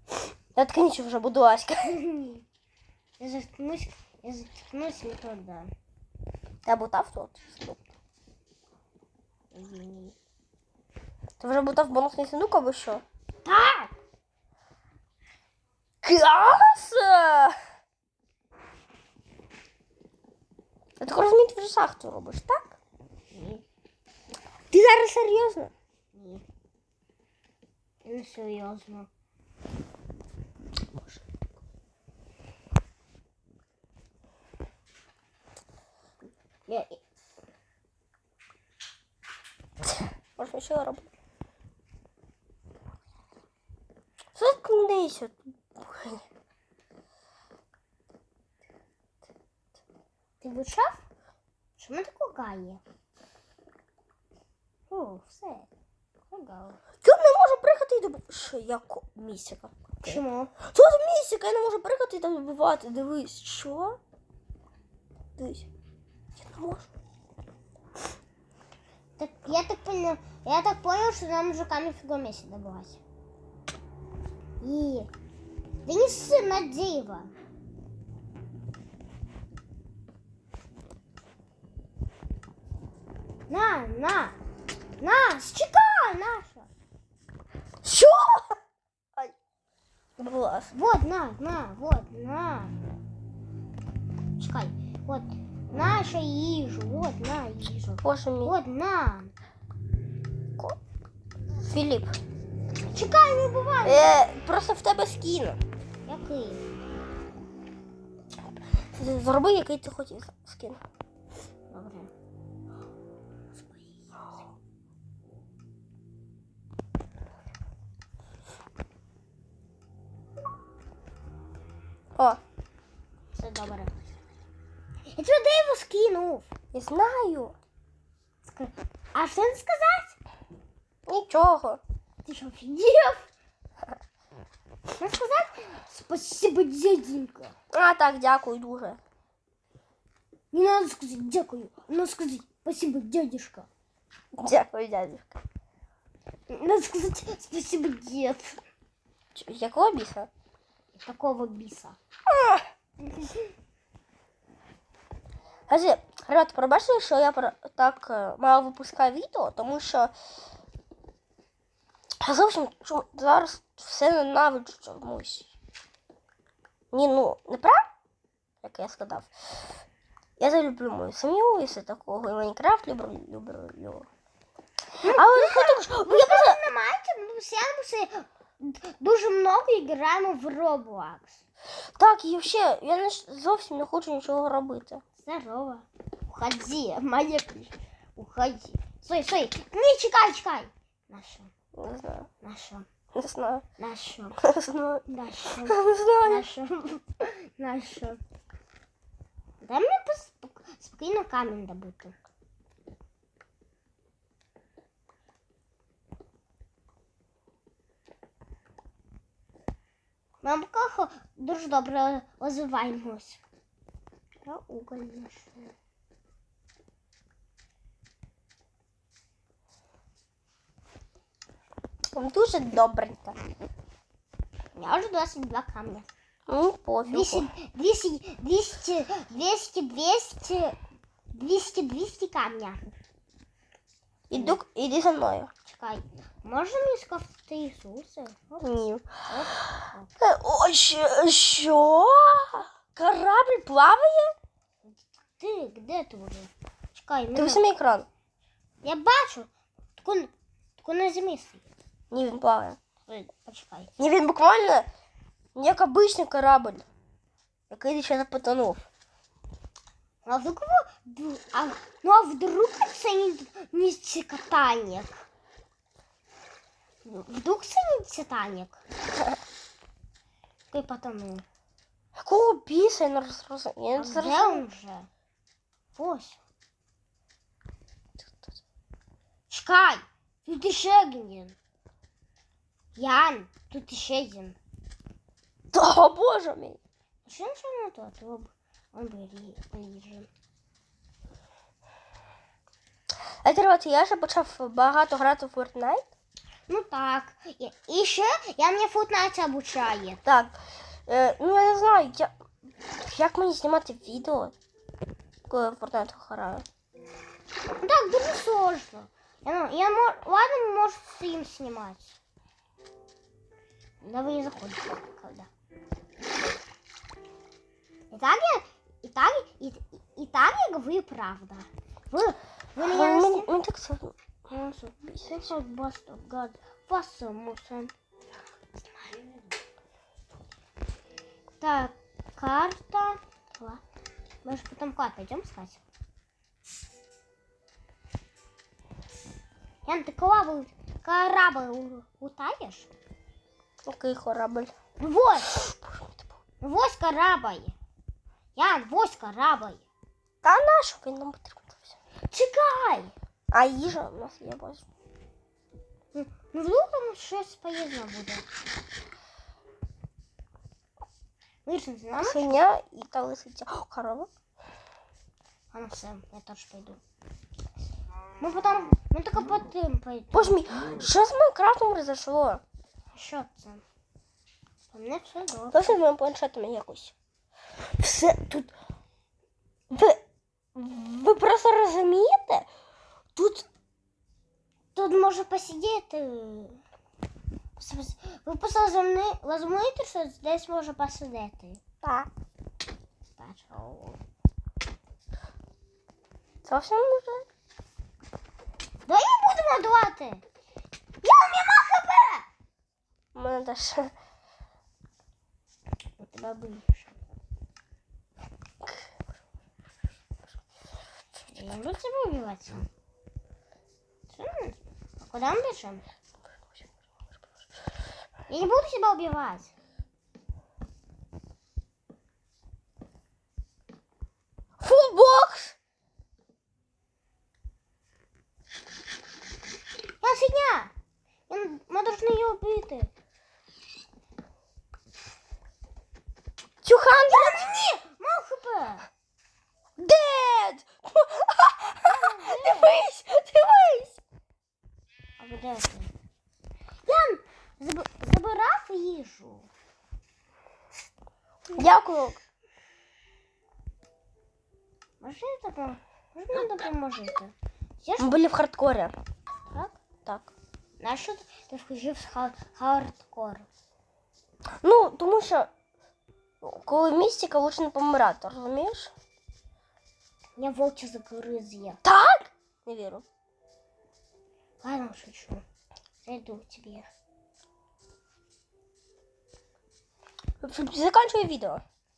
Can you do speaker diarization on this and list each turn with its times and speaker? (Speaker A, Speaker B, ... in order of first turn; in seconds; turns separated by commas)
Speaker A: 0.6-2.0, Speaker B: 1.9-2.4, Speaker B: 3.2-5.7, Speaker A: 6.7-7.9, Speaker B: 9.5-10.2, Speaker A: 11.4-13.0, Speaker B: 13.4-13.9, Speaker A: 16.0-17.6, Speaker A: 21.0-22.8, Speaker B: 23.3-23.6, Speaker A: 24.7-25.7, Speaker B: 26.1-26.4, Speaker B: 28.0-29.1, Speaker B: 36.7-37.0, Speaker A: 40.4-41.1, Speaker A: 44.4-46.2, Speaker B: 50.4-51.0, Speaker B: 51.8-52.8, Speaker B: 54.9-55.7, Speaker B: 56.3-56.8, Speaker A: 57.0-64.0, Speaker B: 60.0-60.5, Speaker A: 65.4-65.7, Speaker A: 66.4-66.9, Speaker B: 69.2-73.0, Speaker B: 74.6-75.1, Speaker B: 75.8-77.3, Speaker B: 83.5-84.3, Speaker B: 85.0-86.7, Speaker A: 87.8-88.5, Speaker A: 90.2-90.7, Speaker B: 90.7-92.7, Speaker B: 94.4-99.3, Speaker A: 98.0-98.5, Speaker A: 101.6-102.2, Speaker B: 102.9-104.1, Speaker A: 103.8-105.6, Speaker B: 106.1-106.6, Speaker A: 108.9-110.8, Speaker B: 111.7-112.1, Speaker B: 123.3-123.9, Speaker B: 125.1-126.5, Speaker A: 126.7-127.5, Speaker B: 128.4-130.2, Speaker A: 131.1-131.8, Speaker B: 132.2-133.3, Speaker B: 135.0-137.6, Speaker A: 137.7-139.0, Speaker B: 140.5-143.7, Speaker A: 144.4-145.4, Speaker B: 146.5-148.6, Speaker A: 149.3-150.3, Speaker B: 150.9-152.0, Speaker A: 152.3-152.7, Speaker B: 153.2-153.4, Speaker A: 155.7-160.1, Speaker A: 162.2-165.5, Speaker A: 166.9-167.8, Speaker A: 168.6-169.3, Speaker A: 170.4-174.1, Speaker B: 175.0-181.4, Speaker A: 175.1-176.6, Speaker A: 181.9-185.0, Speaker B: 185.2-191.5, Speaker A: 191.8-192.3, Speaker B: 192.4-192.9, Speaker A: 193.1-193.6, Speaker B: 193.8-194.4, Speaker A: 194.4-195.1, Speaker B: 195.1-198.2, Speaker A: 195.7-196.5, Speaker B: 199.6-202.2, Speaker B: 210.4-213.4, Speaker B: 214.4-215.7, Speaker A: 222.1-223.4, Speaker B: 224.8-226.1, Speaker A: 226.5-227.5, Speaker B: 227.1-230.8, Speaker B: 231.3-232.9, Speaker A: 234.3-235.5, Speaker B: 235.7-238.7, Speaker A: 238.6-239.7, Speaker B: 239.3-240.1, Speaker A: 240.2-244.3, Speaker B: 244.9-247.6, Speaker A: 247.4-248.1, Speaker B: 248.8-251.7, Speaker A: 252.1-252.8, Speaker B: 253.1-253.9, Speaker A: 254.0-254.9, Speaker A: 255.6-256.9, Speaker A: 257.7-258.9, Speaker B: 260.2-265.3, Speaker B: 267.0-268.8, Speaker B: 270.7-271.4, Speaker A: 272.2-274.6, Speaker B: 274.0-275.1, Speaker B: 275.9-276.4, Speaker B: 279.5-281.6, Speaker B: 283.0-284.6, Speaker A: 285.7-286.8, Speaker B: 287.2-290.3, Speaker A: 293.4-296.0, Speaker B: 296.7-300.2, Speaker A: 300.3-302.3, Speaker A: 303.0-304.5, Speaker A: 305.5-306.6, Speaker B: 307.8-312.2, Speaker B: 314.0-315.5, Speaker B: 318.1-323.5, Speaker A: 322.8-324.1, Speaker B: 324.5-327.9, Speaker B: 331.6-333.8, Speaker B: 334.4-335.8, Speaker B: 339.9-342.9, Speaker A: 343.9-344.7, Speaker B: 345.0-345.6, Speaker A: 345.5-346.2, Speaker B: 346.6-347.8, Speaker B: 348.6-349.9, Speaker A: 350.4-351.9, Speaker B: 352.3-353.1, Speaker A: 353.5-354.8, Speaker B: 356.1-358.4, Speaker B: 361.6-362.6, Speaker A: 362.2-364.3, Speaker B: 365.7-367.0, Speaker B: 368.4-370.7, Speaker A: 370.3-372.6, Speaker B: 373.1-373.8, Speaker B: 374.9-376.0, Speaker A: 375.7-377.1, Speaker A: 378.0-378.7, Speaker A: 379.9-380.2, Speaker A: 380.7-382.7, Speaker A: 383.4-383.7, Speaker B: 384.9-386.8, Speaker B: 387.8-391.8, Speaker A: 392.0-392.3, Speaker B: 393.4-394.2, Speaker A: 396.6-397.5, Speaker B: 399.1-400.4, Speaker B: 401.2-402.5, Speaker A: 403.4-404.1, Speaker B: 406.2-407.2, Speaker B: 411.5-412.9, Speaker B: 414.3-416.0, Speaker B: 418.5-419.7, Speaker A: 424.8-425.8, Speaker B: 430.2-430.9, Speaker B: 431.5-433.1, Speaker A: 436.8-437.8, Speaker B: 437.3-439.1, Speaker A: 440.0-444.2, Speaker B: 442.1-443.0, Speaker B: 445.4-446.1, Speaker B: 447.1-449.7, Speaker A: 451.7-452.4, Speaker B: 455.2-458.4, Speaker A: 458.2-459.1, Speaker A: 460.3-460.5, Speaker B: 461.0-463.7, Speaker A: 464.8-465.7, Speaker A: 466.6-469.1, Speaker B: 470.6-472.0, Speaker A: 472.0-473.2, Speaker B: 474.8-475.6, Speaker B: 476.2-477.1, Speaker A: 480.6-481.8